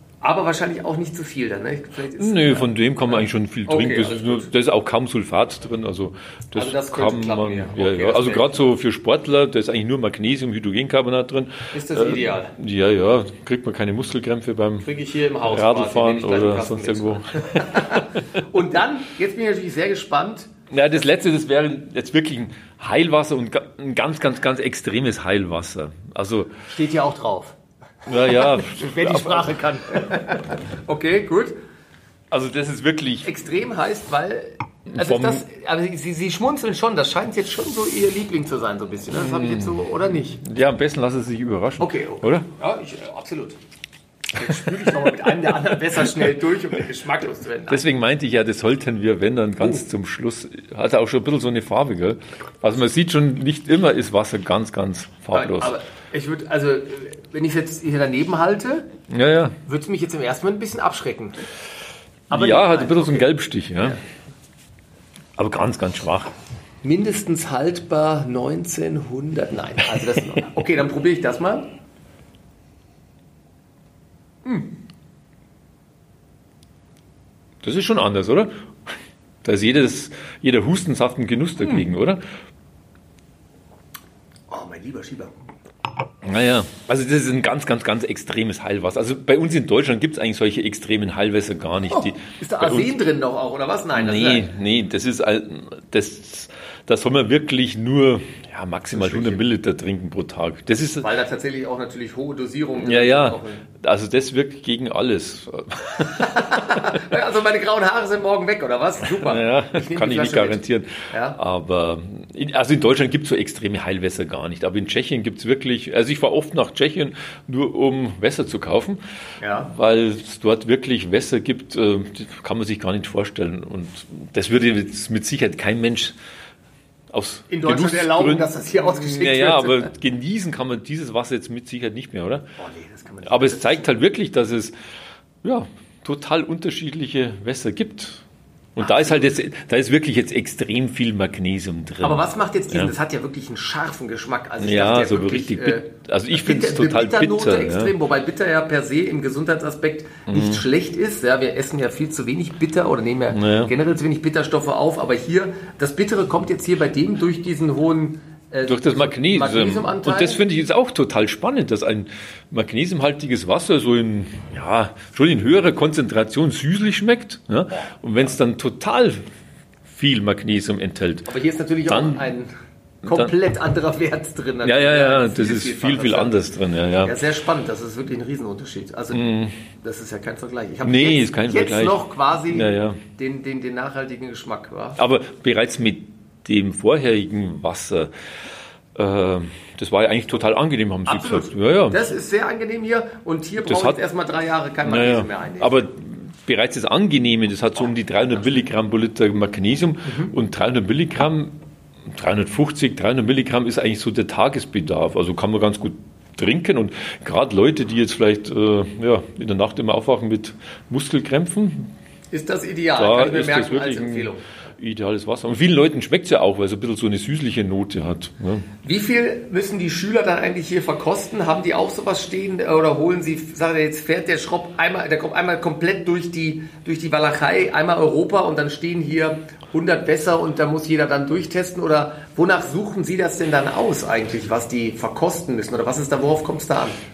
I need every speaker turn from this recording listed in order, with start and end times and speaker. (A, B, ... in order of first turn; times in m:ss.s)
0:00.2-0:04.5 A
0:02.2-0:14.9 B
0:06.6-0:08.6 A
0:11.7-0:12.5 A
0:14.8-0:20.5 A
0:15.4-0:18.1 B
0:20.7-0:26.6 B
0:26.7-0:31.6 A
0:28.1-0:29.6 B
0:32.3-0:33.3 B
0:33.2-0:40.4 A
0:34.9-0:35.4 B
0:39.1-0:39.9 B
0:40.4-0:42.5 B
0:41.8-0:43.6 A
0:44.3-0:47.8 A
0:47.7-0:55.8 B
0:55.3-0:58.9 A
0:59.1-0:59.6 B
0:59.6-1:01.4 A
1:02.3-1:03.3 A
1:02.3-1:04.0 B
1:05.4-1:06.3 B
1:06.8-1:11.7 A
1:14.4-1:14.7 A
1:17.6-1:18.5 B
1:19.4-1:22.2 B
1:24.5-1:25.3 A
1:26.2-1:33.0 B
1:31.9-1:34.5 A
1:33.9-1:41.1 B
1:38.9-1:39.4 A
1:41.0-1:43.6 A
1:42.8-1:46.6 B
1:46.0-1:51.4 A
1:49.1-1:59.0 B
1:59.4-1:59.7 A
1:59.6-2:06.2 B
2:07.1-2:12.5 B
2:07.5-2:09.9 A
2:12.6-2:13.9 A
2:13.2-2:14.8 B
2:15.4-2:18.2 B
2:18.8-2:22.9 B
2:18.8-2:19.4 A
2:22.0-2:40.4 A
2:24.6-2:27.9 B
2:30.3-2:30.6 B
2:33.3-2:33.7 B
2:38.7-2:49.2 B
2:49.8-2:51.3 B
2:51.3-2:52.5 A
2:51.9-2:52.3 B
2:53.0-2:56.4 A
2:53.1-2:53.3 B
2:54.6-2:57.2 B
2:57.0-2:59.3 A
2:59.1-2:59.6 B
2:59.8-3:05.0 A
3:00.8-3:03.0 B
3:05.0-3:08.1 B
3:09.0-3:12.0 B
3:11.1-3:15.8 A
3:13.6-3:14.0 B
3:14.8-3:31.9 B
3:20.0-3:20.3 A
3:32.3-3:34.5 A
3:33.0-3:38.7 B
3:38.8-3:57.0 A